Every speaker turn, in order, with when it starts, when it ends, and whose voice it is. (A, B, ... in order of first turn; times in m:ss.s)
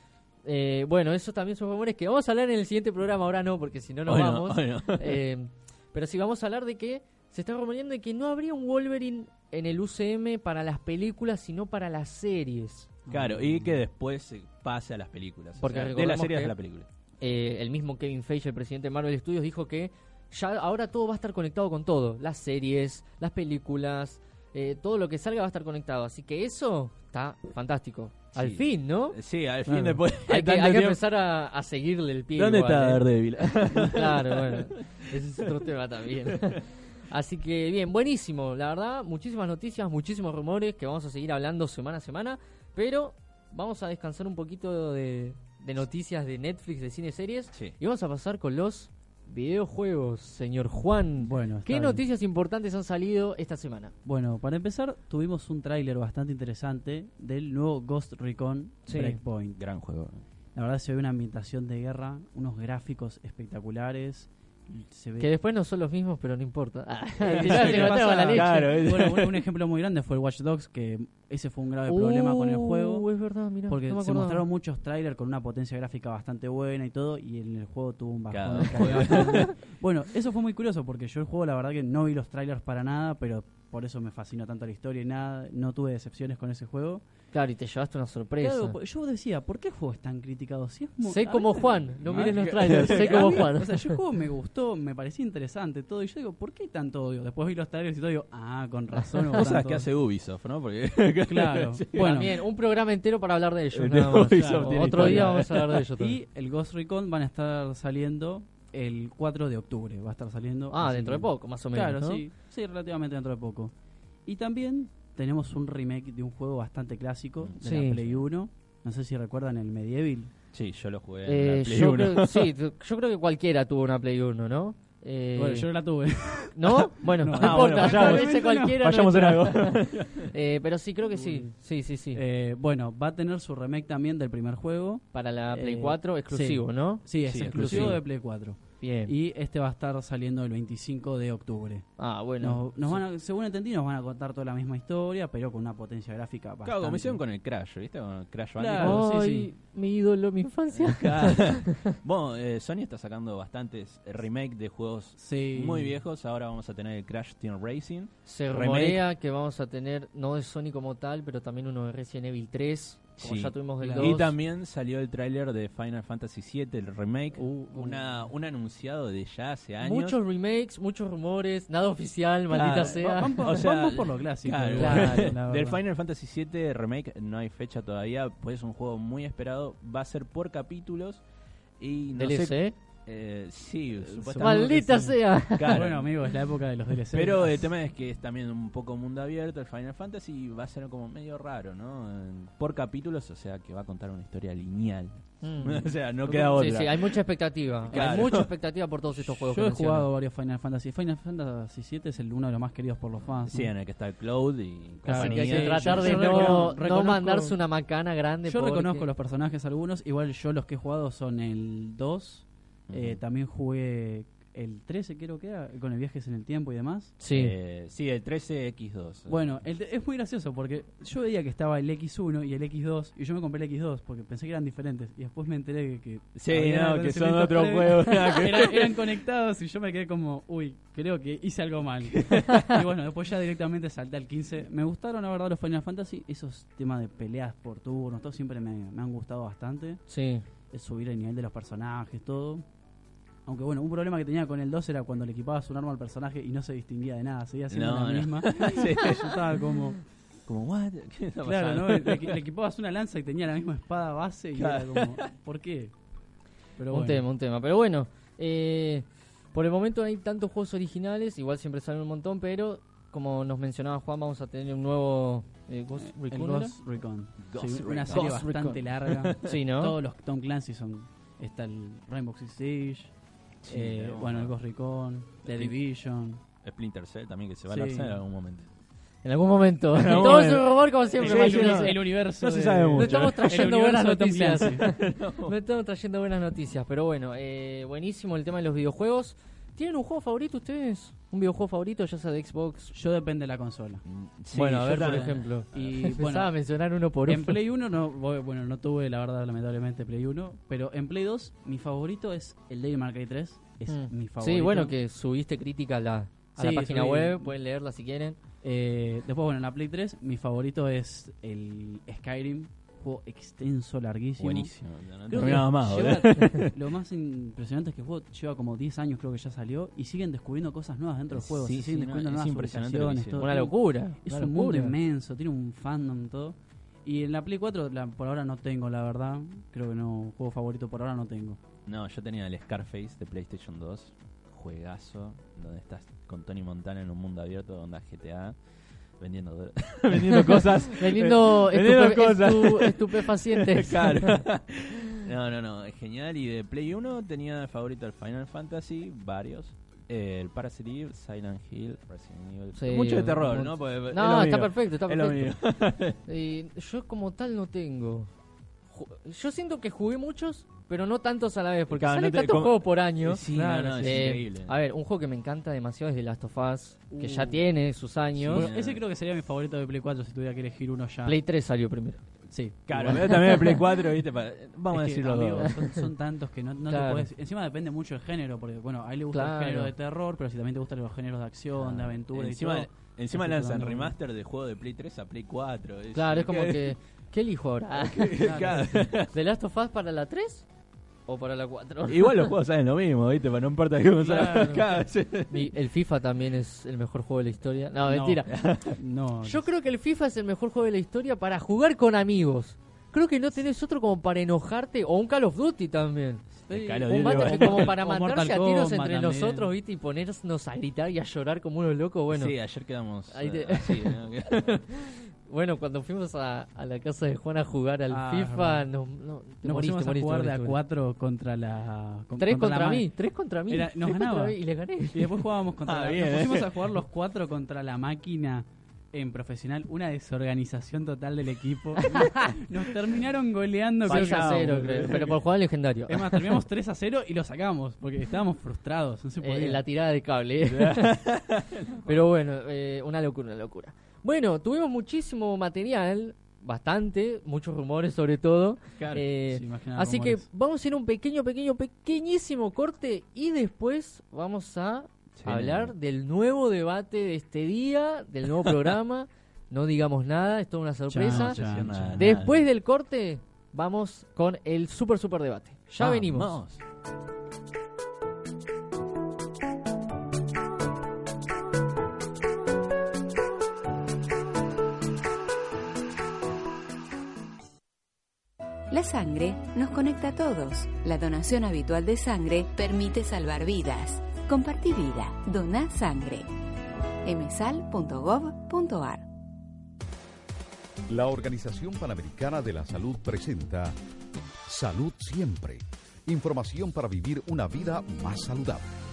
0:00.4-0:12.9 A
0:04.1-0:05.2 B
0:13.1-0:13.8 C
0:13.1-0:16.9 B
0:15.6-0:16.6 A
0:17.2-0:29.2 A
0:28.3-0:31.0 B
0:29.7-0:30.0 C
0:30.3-0:53.9 A
0:32.4-0:35.4 B
0:36.2-0:36.6 B
0:51.2-0:52.0 C
0:54.0-0:59.6 C
0:58.9-0:59.2 A
0:59.6-1:00.2 B
1:00.6-1:05.3 C
1:05.2-1:08.7 A
1:07.2-1:13.1 C
1:07.3-1:09.4 B
1:11.9-1:14.5 A
1:13.7-1:27.0 C
1:18.3-1:19.5 B
1:19.0-1:19.5 A
1:27.3-1:28.8 A
1:28.4-1:39.9 C
1:31.0-1:34.0 A
1:32.1-1:33.5 B
1:39.3-1:42.4 B
1:41.3-1:42.4 C
1:42.0-1:46.2 A
1:43.7-1:45.8 B
1:44.4-1:45.4 C
1:46.0-1:53.7 C
1:50.7-1:52.2 A
1:54.2-2:00.3 C
1:57.6-1:58.0 A
2:00.5-2:02.5 B
2:01.3-2:05.7 A
2:05.4-2:08.8 C
2:06.6-2:12.2 A
2:07.3-2:10.3 B
2:11.1-2:11.5 C
2:12.1-2:27.2 C
2:15.1-2:18.0 A
2:17.2-2:18.0 B
2:18.8-2:19.1 A
2:22.0-2:23.0 A
2:26.6-2:29.0 B
2:28.6-2:29.5 C
2:28.8-2:32.0 A
2:30.8-2:39.0 B
2:35.2-2:36.0 C
2:38.3-2:44.3 A
2:43.2-2:50.2 B
2:43.8-2:44.1 C
2:47.4-2:47.8 C
2:47.5-2:47.9 A
2:49.8-2:53.5 A
2:52.5-2:55.8 C
2:52.5-3:01.2 B
2:54.8-2:55.4 A
3:01.8-3:06.1 B
3:02.2-3:02.8 A
3:04.0-3:07.6 C
3:04.4-3:05.9 A
3:07.1-3:17.2 B
3:15.4-3:20.1 A
3:16.3-3:16.6 C
3:17.9-3:18.5 B
3:19.5-3:23.7 C
3:23.5-3:26.8 B
3:25.0-3:27.6 C
3:25.1-3:29.1 A
3:28.5-3:37.2 C
3:32.9-3:33.2 B
3:37.2-3:37.6 A
3:37.3-3:39.4 B
3:39.3-4:00.0 C
3:46.4-3:49.0 B
3:52.2-3:52.7 B
4:00.1-4:00.4 A
4:00.7-4:02.6 C
4:03.5-4:10.0 C
4:07.7-4:09.6 B
4:10.5-4:12.4 B
4:11.4-4:15.9 C
4:14.6-4:15.2 B
4:16.8-4:17.2 C
4:16.9-4:26.8 A
4:26.0-4:33.1 C
4:27.4-4:28.5 B
4:28.1-4:28.8 A
4:29.0-4:29.5 B
4:29.4-4:30.0 A
4:33.6-4:34.5 B
4:33.7-4:36.4 C
4:35.5-4:35.8 B
4:36.6-4:38.7 B
4:37.7-4:38.2 C
4:39.2-4:42.0 A
4:39.9-4:43.7 B
4:40.1-4:40.4 C
4:41.2-4:44.8 C
4:43.0-4:52.9 A
4:44.8-4:45.5 B
4:52.9-4:54.0 C
4:54.1-4:55.9 B
4:54.5-4:57.6 A
4:54.8-4:56.5 C
4:57.3-5:04.9 C
5:03.9-5:08.4 A
5:06.6-5:07.5 C
5:08.6-5:14.7 C
5:14.4-5:16.7 B
5:15.3-5:31.6 C
5:15.4-5:15.7 A
5:21.3-5:23.5 B
5:23.4-5:25.0 A
5:31.9-5:38.6 B
5:39.2-5:56.2 B
5:40.9-5:44.4 A
5:52.8-5:55.6 A
5:56.3-5:58.3 A
5:58.9-6:03.4 A
6:01.9-6:04.7 B
6:03.5-6:04.4 C
6:04.0-6:08.7 A
6:07.1-6:07.6 C
6:08.4-6:09.0 B
6:08.5-6:11.4 C
6:11.2-6:12.2 A
6:12.5-6:13.7 C
6:12.9-6:15.8 B
6:14.9-6:24.1 C
6:16.9-6:17.3 A
6:19.3-6:19.9 A
6:21.8-6:27.0 B
6:26.1-6:28.7 A
6:27.9-6:29.3 B
6:28.4-6:29.0 C
6:29.3-6:30.7 A
6:31.3-6:32.5 A
6:32.1-6:35.7 B
6:34.2-6:34.8 C
6:34.3-6:34.8 A
6:35.5-6:38.5 A
6:38.1-6:39.7 C
6:38.5-6:39.0 B
6:39.4-6:52.6 A
6:46.7-6:48.0 B
6:46.8-6:49.7 C
6:52.3-6:54.8 B
6:53.3-7:00.8 A
6:58.1-6:58.9 C
6:59.6-7:03.1 C
7:02.4-7:05.3 A
7:03.7-7:04.6 C
7:05.1-7:15.4 C
7:05.8-7:07.0 B
7:12.1-7:12.4 A
7:14.0-7:15.4 B
7:14.0-7:16.5 A
7:16.1-7:19.8 C
7:19.4-7:21.2 A
7:20.7-7:22.0 B
7:22.0-7:41.6 A
7:29.0-7:29.2 B
7:29.5-7:30.5 C
7:35.4-7:35.9 B
7:41.1-7:42.4 C
7:41.2-7:42.6 B
7:42.2-7:46.6 A
7:46.0-7:46.8 B
7:58.9-8:06.5 D
8:07.2-8:09.3 D
8:11.1-8:14.0 E
8:14.7-8:18.9 E